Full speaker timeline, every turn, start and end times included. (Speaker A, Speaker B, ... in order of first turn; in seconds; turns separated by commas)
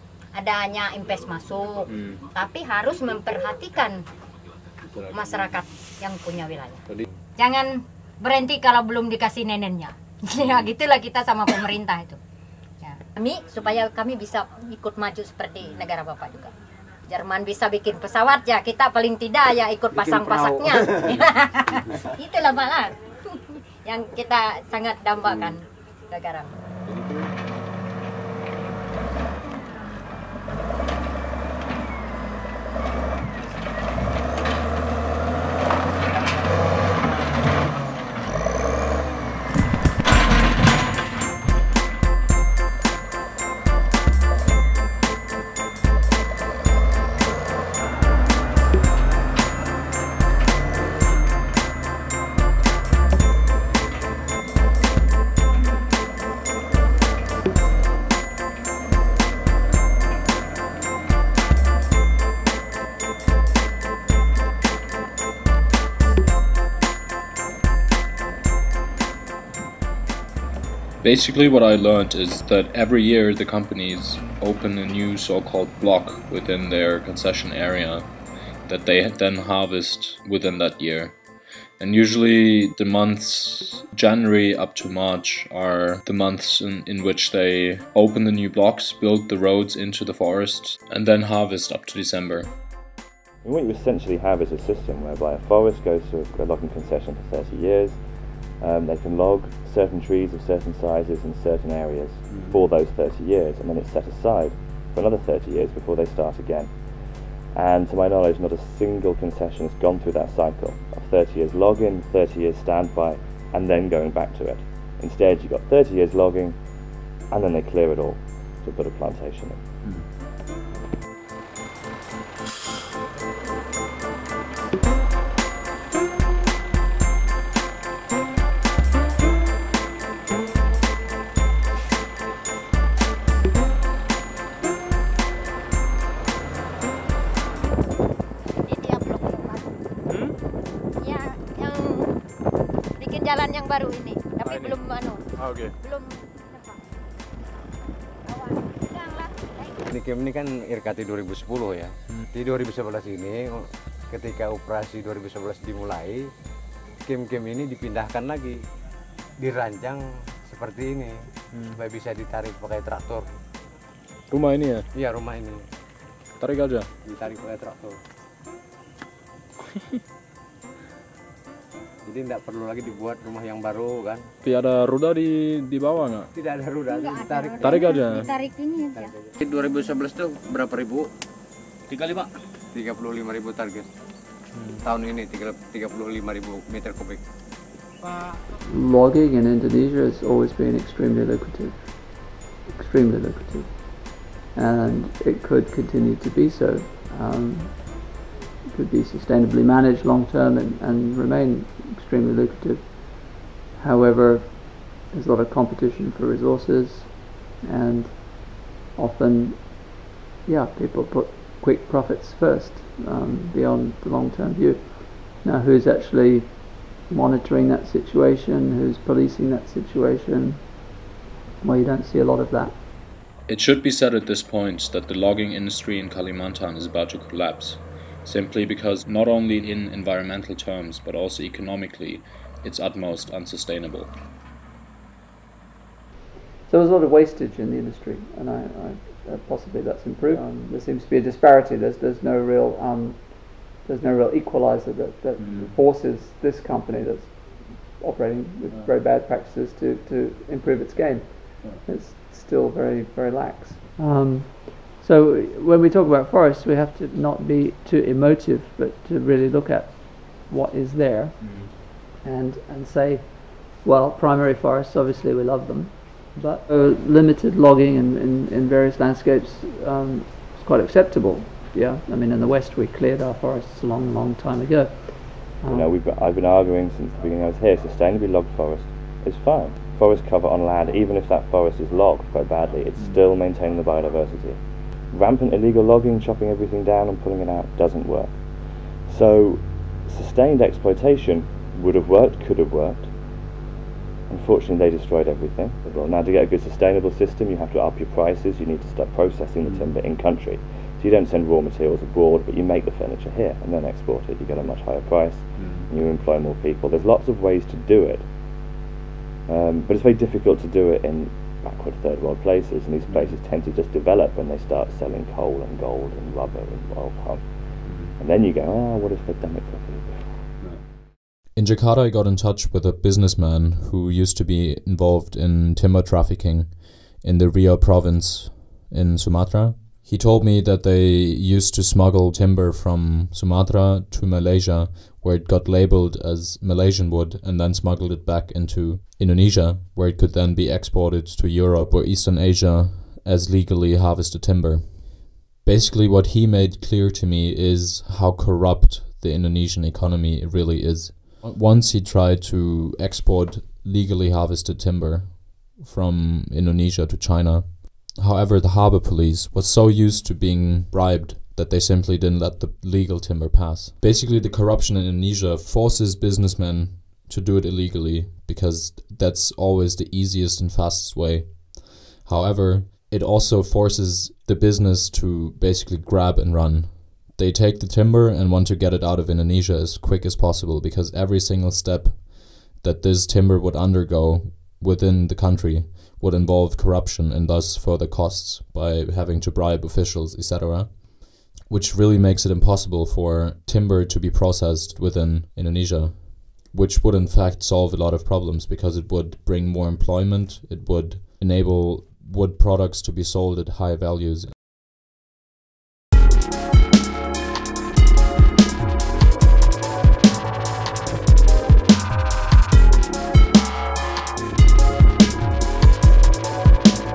Speaker A: 0.3-4.0, Speaker A: 5.0-6.8, Speaker A: 7.4-12.2, Speaker A: 12.8-16.5, Speaker A: 17.1-21.2, Speaker B: 19.9-21.2, Speaker A: 22.2-25.6, Speaker A: 26.1-26.5, Speaker B: 26.9-27.3, Speaker C: 71.0-78.1, Speaker C: 78.7-81.2, Speaker C: 81.8-92.5, Speaker D: 93.4-119.7, Speaker A: 138.6-139.6, Speaker A: 141.0-142.1, Speaker A: 143.0-145.2, Speaker C: 144.4-144.7, Speaker A: 145.8-146.2, Speaker A: 148.3-149.7, Speaker B: 149.9-156.3, Speaker B: 157.1-158.6, Speaker B: 159.4-163.3, Speaker C: 164.3-164.8, Speaker B: 164.9-165.7, Speaker C: 166.4-166.9, Speaker B: 167.0-168.0, Speaker B: 172.1-174.3, Speaker C: 174.5-176.2, Speaker B: 176.3-181.1, Speaker C: 177.7-178.1, Speaker B: 182.2-183.9, Speaker B: 184.8-187.2, Speaker E: 188.7-198.1, Speaker E: 198.7-220.7, Speaker E: 221.6-222.8, Speaker C: 223.5-234.1, Speaker E: 236.7-275.9, Speaker C: 245.4-245.7, Speaker D: 275.7-293.1, Speaker D: 294.3-308.3, Speaker D: 309.5-320.2, Speaker C: 321.6-391.0, Speaker C: 391.6-404.5